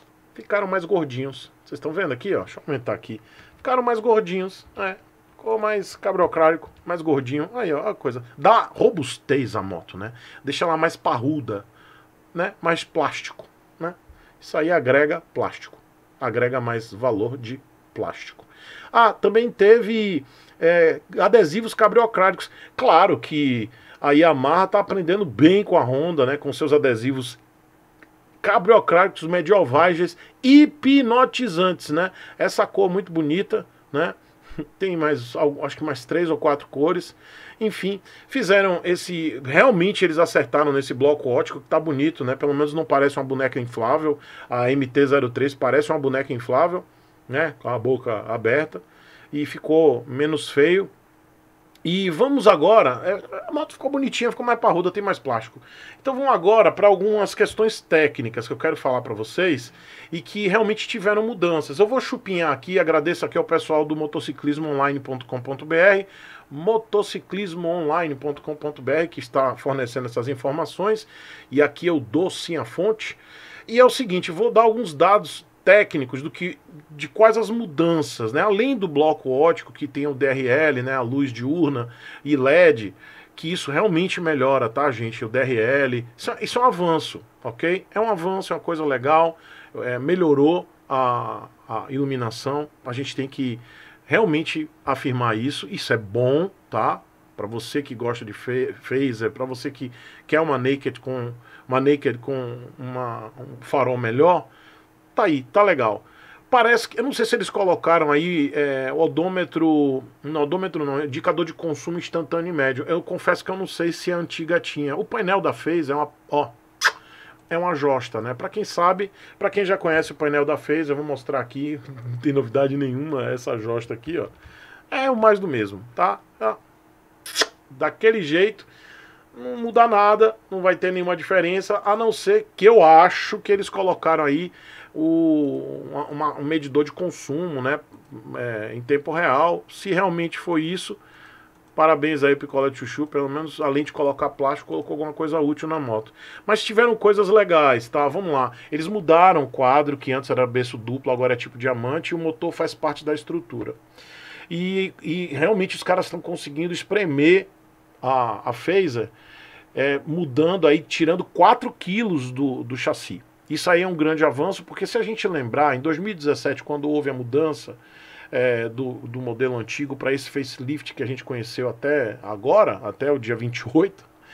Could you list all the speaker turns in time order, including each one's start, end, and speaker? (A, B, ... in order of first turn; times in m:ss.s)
0:00.3-0:11.7 A
0:12.3-0:27.4 A
0:28.4-0:34.2 A
0:34.8-0:50.9 A
0:51.8-1:44.5 A
1:45.1-1:56.6 A
1:57.5-2:04.3 A
2:04.9-2:06.6 A
2:07.7-2:08.7 A
2:09.3-2:21.0 A
2:21.7-2:33.8 A
2:34.5-2:37.5 A
2:38.0-2:39.1 A
2:39.7-2:47.8 A
2:48.3-2:54.1 A